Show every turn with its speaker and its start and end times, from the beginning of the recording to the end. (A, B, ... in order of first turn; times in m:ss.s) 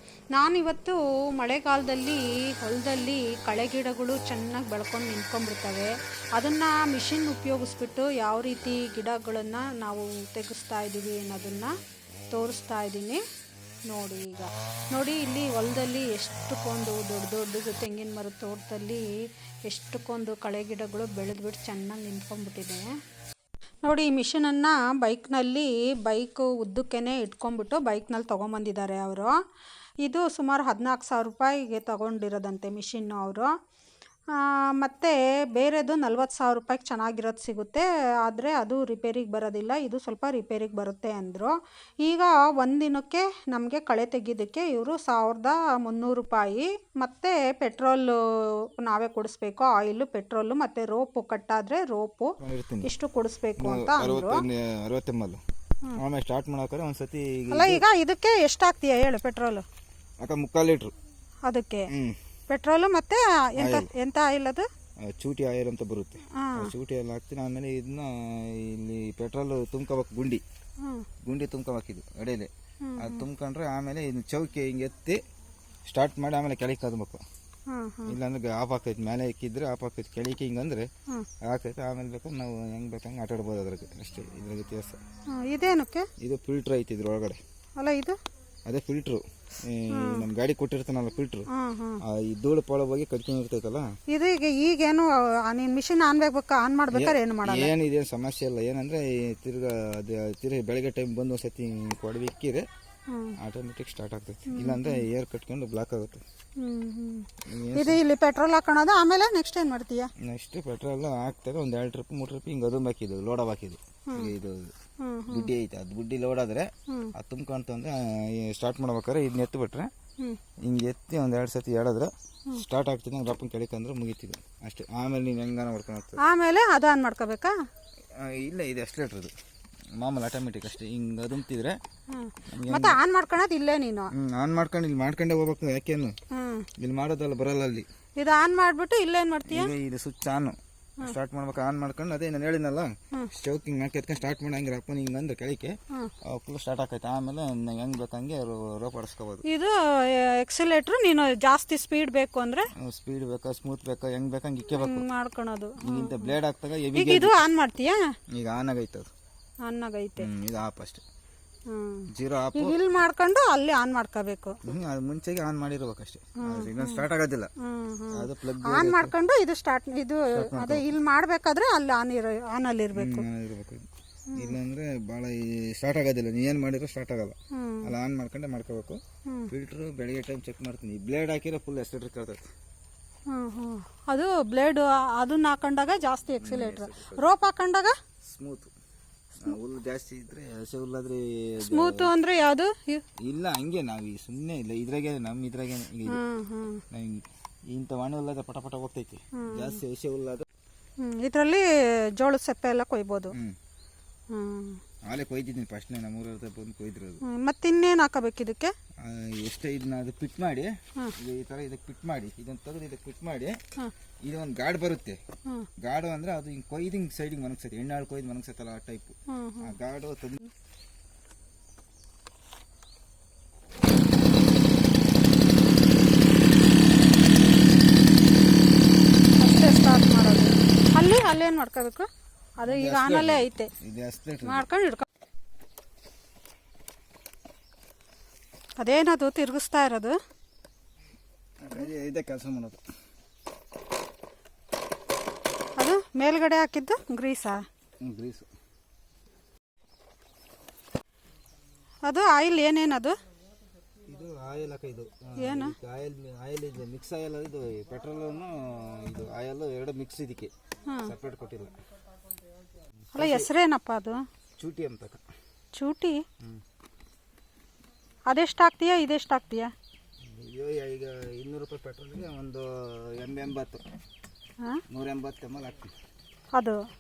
0:00.4-0:11.7 A
0:12.3-0:13.2 A
0:13.9-0:19.1 A
0:19.7-0:22.9 A
0:23.8-0:29.3 A
0:30.0-0:33.5 A
0:34.4-0:41.5 A
0:42.0-0:54.4 A
0:52.4-0:52.9 B
0:53.6-0:55.4 B
0:56.0-0:57.8 B
0:57.5-0:59.6 A
1:00.2-1:00.9 B
1:01.4-1:01.9 A
1:01.9-1:02.2 B
1:02.5-1:04.7 A
1:03.6-1:03.9 B
1:05.0-1:10.4 B
1:06.4-1:06.7 A
1:10.8-1:11.1 A
1:11.2-1:15.2 B
1:12.8-1:13.2 A
1:15.9-1:17.2 B
1:17.7-1:18.2 A
1:18.1-1:20.9 B
1:21.4-1:25.0 B
1:25.3-1:26.1 A
1:26.2-1:27.4 B
1:27.8-1:28.2 A
1:28.7-1:31.5 B
1:29.9-1:30.3 A
1:31.5-1:32.0 A
1:32.0-1:33.9 B
1:34.1-1:37.7 A
1:36.9-1:42.7 B
1:43.1-1:43.4 A
1:43.4-1:46.2 B
1:44.5-1:45.0 A
1:46.6-1:50.1 A
1:47.5-1:48.0 B
1:50.2-1:54.7 B
1:55.0-1:55.5 A
1:55.3-1:59.9 B
2:00.6-2:06.2 B
2:06.2-2:07.5 A
2:08.1-2:09.3 B
2:10.0-2:11.8 B
2:12.1-2:14.1 A
2:12.5-2:13.0 B
2:14.2-2:16.2 B
2:16.3-2:16.7 A
2:16.8-2:17.9 B
2:18.2-2:19.7 A
2:19.5-2:29.4 B
2:29.4-2:32.7 A
2:32.8-2:35.1 B
2:34.7-2:36.3 A
2:35.8-2:37.4 B
2:36.9-2:38.0 A
2:38.3-2:39.1 B
2:39.6-2:40.3 A
2:40.2-2:41.0 B
2:41.7-2:44.6 A
2:42.1-2:42.8 B
2:44.6-2:47.5 B
2:46.4-2:47.0 A
2:47.6-2:53.3 A
2:48.1-2:49.1 B
2:50.3-2:50.9 B
2:53.0-3:02.5 B
2:57.5-2:57.9 A
3:03.3-3:07.9 A
3:06.4-3:07.3 B
3:08.2-3:08.7 B
3:09.4-3:12.1 B
3:11.6-3:13.0 A
3:13.2-3:16.2 B
3:16.1-3:16.8 A
3:16.9-3:20.5 B
3:19.4-3:19.8 A
3:21.0-3:21.7 A
3:22.2-3:23.4 A
3:23.3-3:23.6 B
3:24.3-3:24.8 A
3:25.1-3:27.2 B
3:27.2-3:28.7 A
3:29.0-3:33.6 B
3:34.2-3:35.2 B
3:35.8-3:40.5 B
3:39.3-3:39.7 A
3:49.4-3:52.1 A
3:52.6-3:53.7 A
3:52.6-3:54.7 B
3:54.4-3:55.1 A
3:58.8-4:00.2 A
4:01.6-4:02.8 B
4:05.8-4:07.6 A
4:08.0-4:08.5 B
4:12.1-4:13.2 A
4:14.1-4:20.5 B
4:15.4-4:15.8 A
4:21.0-4:21.8 B
4:23.2-4:23.5 B
4:23.2-4:24.2 A
4:24.6-4:25.2 B
4:25.7-4:26.2 A
4:28.3-4:29.7 A
4:30.3-4:33.8 B
4:34.9-4:35.9 B
4:36.6-4:36.8 A